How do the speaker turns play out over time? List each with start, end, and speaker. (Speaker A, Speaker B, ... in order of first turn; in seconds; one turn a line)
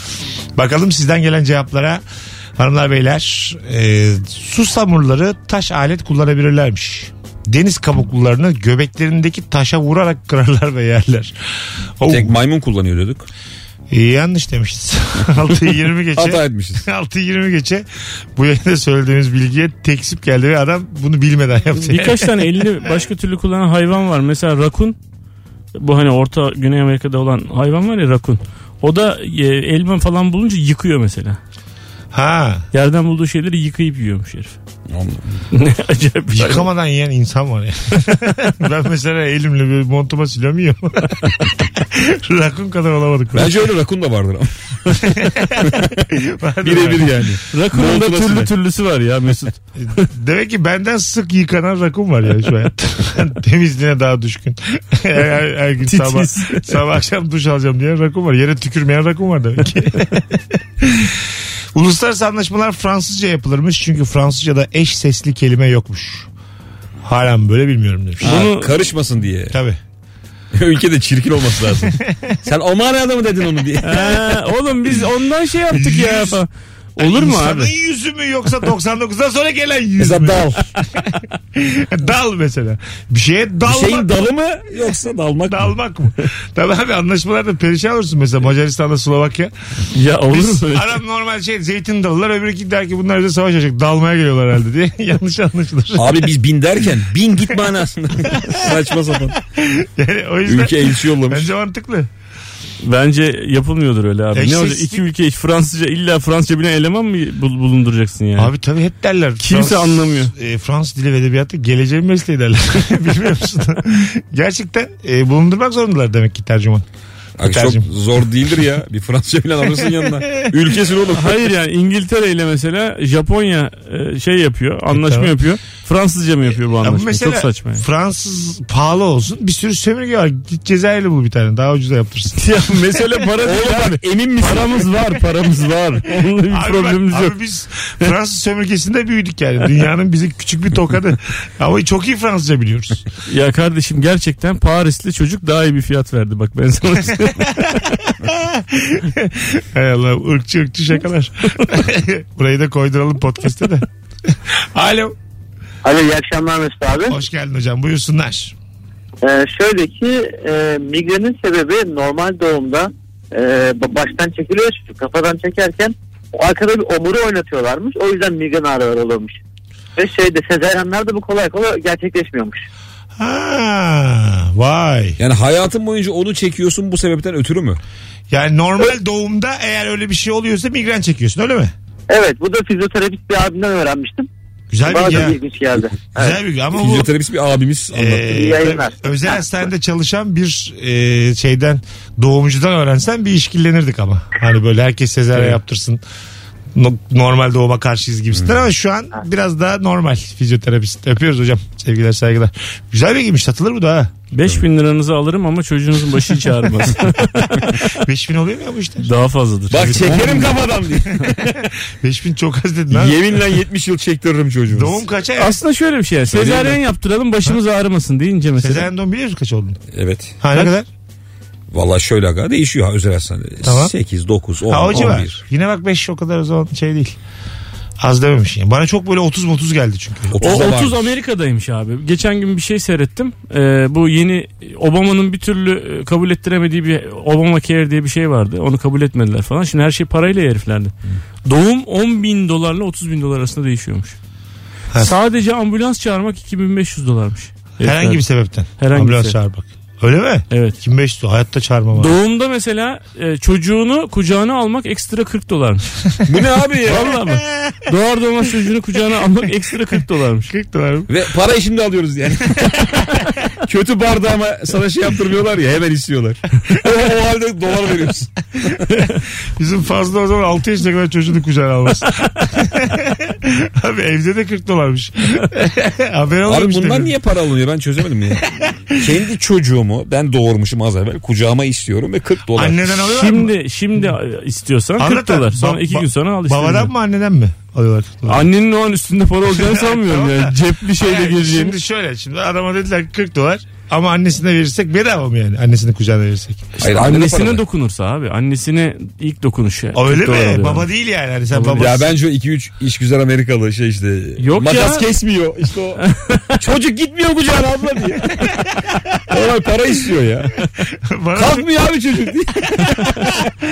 Speaker A: 0.6-2.0
Speaker A: 2.6-11.3
Speaker A: 12.0-12.3
Speaker B: 12.1-13.3
Speaker A: 13.9-22.5
Speaker B: 16.2-16.9
Speaker C: 21.8-25.0
Speaker C: 25.8-31.4
Speaker A: 32.1-32.7
Speaker C: 32.7-34.6
Speaker B: 34.9-35.4
Speaker C: 35.5-36.7
Speaker A: 36.3-43.5
Speaker B: 43.3-46.0
Speaker A: 45.0-47.3
Speaker B: 46.6-48.5
Speaker C: 47.5-50.1
Speaker A: 49.8-66.3
Speaker C: 55.9-56.8
Speaker A: 67.0-68.4
Speaker B: 68.2-69.6
Speaker C: 68.2-68.7
Speaker A: 69.5-69.8
Speaker B: 70.5-74.3
Speaker A: 71.8-72.4
Speaker C: 73.8-77.7
Speaker A: 75.7-76.4
Speaker A: 77.0-80.5
Speaker B: 80.0-80.7
Speaker A: 81.5-84.2
Speaker B: 83.7-85.7
Speaker A: 85.5-89.5
Speaker C: 89.9-91.0
Speaker A: 90.3-96.3
Speaker B: 96.0-99.4
Speaker A: 98.3-98.7
Speaker A: 99.4-102.1
Speaker B: 100.5-101.5
Speaker C: 102.8-108.5
Speaker A: 104.3-105.0
Speaker A: 108.4-116.9
Speaker C: 109.4-110.3
Speaker B: 117.4-121.4
Speaker A: 117.4-117.9
Speaker A: 119.8-120.6
Speaker C: 121.1-127.8
Speaker A: 124.9-125.4
Speaker A: 126.7-133.0
Speaker C: 132.4-137.4
Speaker B: 133.4-134.9
Speaker A: 136.5-143.0
Speaker C: 143.3-147.8
Speaker A: 147.3-153.9
Speaker A: 154.5-155.2
Speaker D: 155.8-157.2
Speaker A: 157.1-158.5
Speaker D: 159.2-169.4
Speaker D: 170.0-172.7
Speaker A: 173.2-175.2
Speaker B: 175.2-177.8
Speaker A: 178.3-181.7
Speaker D: 182.1-184.3
Speaker A: 184.7-185.4
Speaker D: 184.8-186.4
Speaker A: 186.2-187.1
Speaker B: 186.8-188.5
Speaker A: 187.9-196.0
Speaker D: 188.3-188.9
Speaker A: 196.7-204.1
Speaker C: 204.3-207.8
Speaker A: 207.8-209.1
Speaker C: 209.0-210.5
Speaker B: 209.7-211.5
Speaker A: 209.8-213.4
Speaker B: 212.9-215.0
Speaker A: 214.7-215.6
Speaker C: 215.4-218.9
Speaker B: 216.3-216.8
Speaker A: 218.6-219.8
Speaker B: 219.9-220.4
Speaker A: 220.4-220.9
Speaker B: 221.7-225.4
Speaker A: 223.6-223.9
Speaker A: 224.7-227.2
Speaker A: 228.0-230.7
Speaker B: 230.3-231.1
Speaker C: 230.4-240.9
Speaker C: 241.4-244.2
Speaker C: 245.0-248.2
Speaker A: 247.8-252.2
Speaker C: 248.8-249.4
Speaker C: 250.5-250.8
Speaker C: 251.9-255.9
Speaker B: 256.3-257.2
Speaker C: 256.9-260.5
Speaker A: 257.3-257.9
Speaker A: 260.5-261.1
Speaker B: 261.1-268.3
Speaker A: 269.6-277.1
Speaker B: 276.5-282.9
Speaker A: 278.5-279.2
Speaker A: 282.6-283.5
Speaker C: 283.1-286.9
Speaker A: 285.0-288.5
Speaker C: 288.3-291.8
Speaker A: 289.5-296.7
Speaker C: 296.8-300.9
Speaker B: 296.8-297.6
Speaker A: 299.9-302.1
Speaker C: 301.6-301.8
Speaker B: 301.7-306.0
Speaker C: 304.4-305.1
Speaker C: 306.0-306.6
Speaker B: 306.5-308.6
Speaker B: 309.3-310.6
Speaker A: 311.1-311.7
Speaker B: 311.4-313.5
Speaker A: 312.8-313.1